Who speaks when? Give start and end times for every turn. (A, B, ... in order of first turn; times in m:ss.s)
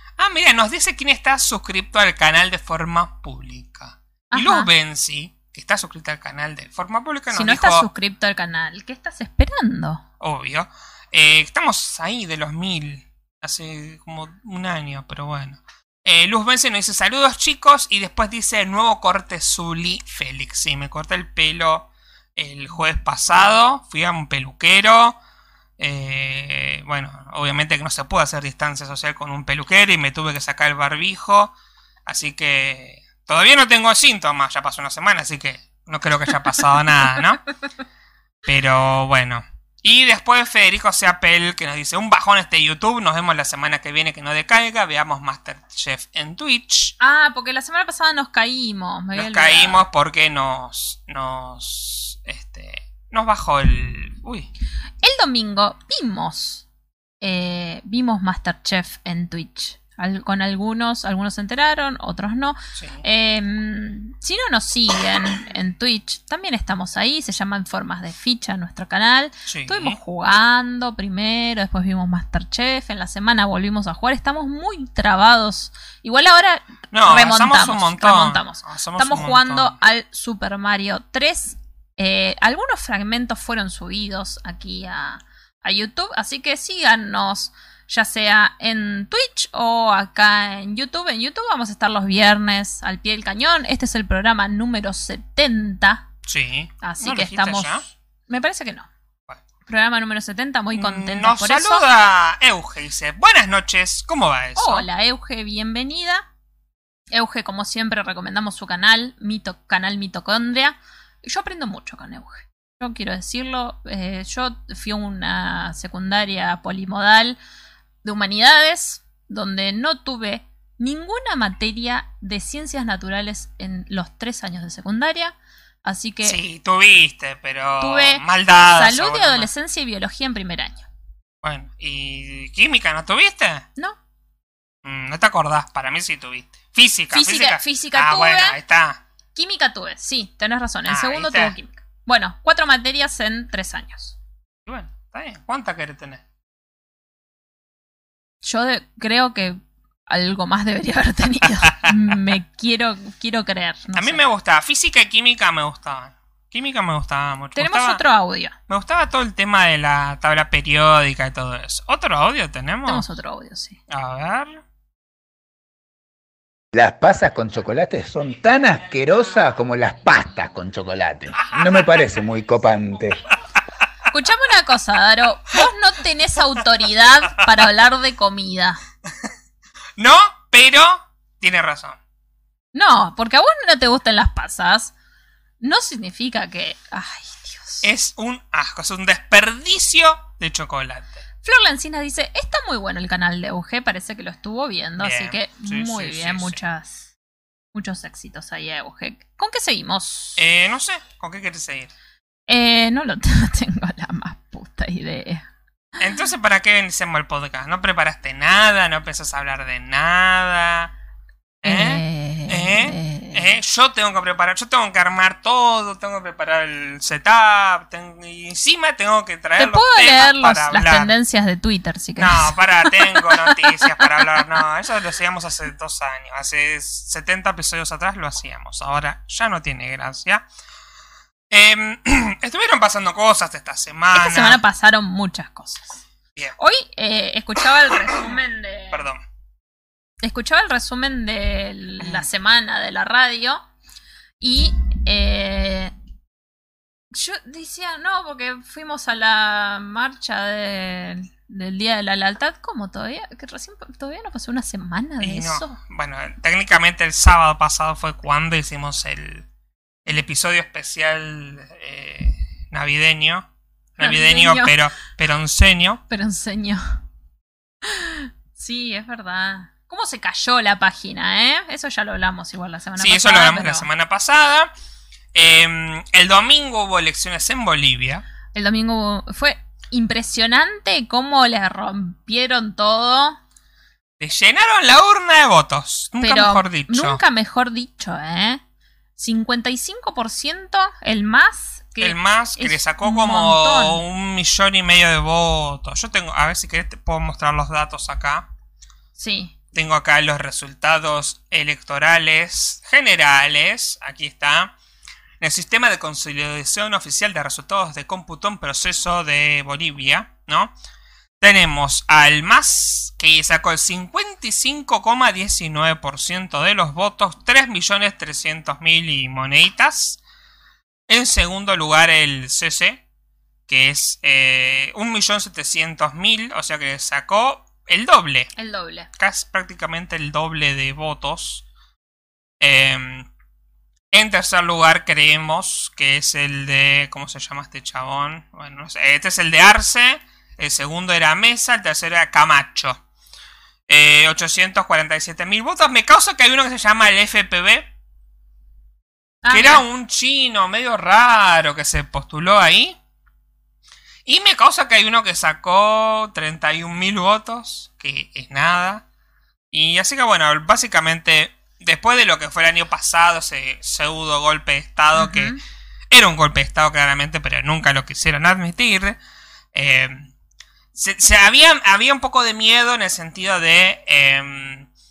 0:00.2-0:07.8 A
0:04.3-0:04.7 B
0:07.3-0:10.0 B
0:10.2-0:25.2 A
0:25.8-0:31.5 A
0:32.0-0:37.4 A
0:38.4-0:46.9 A
0:47.0-0:49.8 B
0:49.2-0:54.5 A
0:55.0-0:56.6 B
0:57.2-1:36.0 B
1:02.7-1:03.0 A
1:09.5-1:10.0 A
1:16.9-1:19.7 A
1:36.2-1:37.8 A
1:36.8-1:38.9 B
1:39.7-1:41.8 B
1:40.8-1:44.8 A
1:44.6-1:46.2 B
1:47.1-1:57.4 B
1:58.0-2:06.4 B
2:06.2-2:09.5 A
2:07.8-2:10.8 B
2:11.4-2:13.6 A
2:14.8-2:19.0 A
2:17.1-2:18.6 B
2:19.3-2:24.1 B
2:20.9-2:21.5 A
2:24.7-2:26.2 A
2:28.4-2:34.2 B
2:33.9-2:38.0 A
2:37.6-2:38.5 B
2:38.7-2:43.0 A
2:42.8-2:43.8 B
2:43.9-2:44.6 A
2:46.7-2:53.2 C
2:54.1-2:58.8 B
3:00.0-3:02.0 A
3:02.7-3:04.9 B
3:05.6-3:07.8 B
3:07.8-3:11.2 A
3:11.4-3:17.1 B
3:15.0-3:16.6 A
3:17.7-3:20.4 B
3:20.4-3:21.9 A
3:22.5-3:25.4 B
3:26.0-3:30.9 A
3:31.6-3:41.1 A
3:31.6-3:33.5 B
3:39.6-3:44.2 B
3:42.2-3:50.4 A
3:51.5-3:54.6 A
3:54.1-3:56.0 B
3:56.6-3:59.0 B
3:58.9-3:59.2 A
4:00.2-4:03.6 B
4:04.4-4:05.9 B
4:07.1-4:15.8 B
4:15.2-4:19.4 A
4:20.0-4:26.0 A
4:24.0-4:24.7 B
4:26.1-4:27.0 B
4:27.8-4:33.9 B
4:33.0-4:34.7 A
4:35.3-4:38.2 A
4:38.5-4:43.4 B
4:44.2-4:47.2 A
4:46.2-4:48.6 B
4:49.2-4:54.0 B
4:52.0-4:58.5 A
4:59.2-4:59.5 B
4:59.7-5:04.7 A
5:05.4-5:10.7 A
5:11.4-5:20.2 A
5:21.1-5:23.0 A
5:23.7-5:28.5 A
5:28.6-5:29.1 B
5:29.2-5:31.6 A
5:32.6-5:33.3 A
5:34.1-5:43.0 A
5:43.9-5:47.9 A
5:49.4-5:49.8 B
5:49.5-5:53.0 A
5:54.2-5:59.0 A
5:59.7-6:05.5 A
6:05.1-6:05.6 B
6:06.1-6:09.2 A
6:09.7-6:10.3 A
6:10.9-6:14.9 A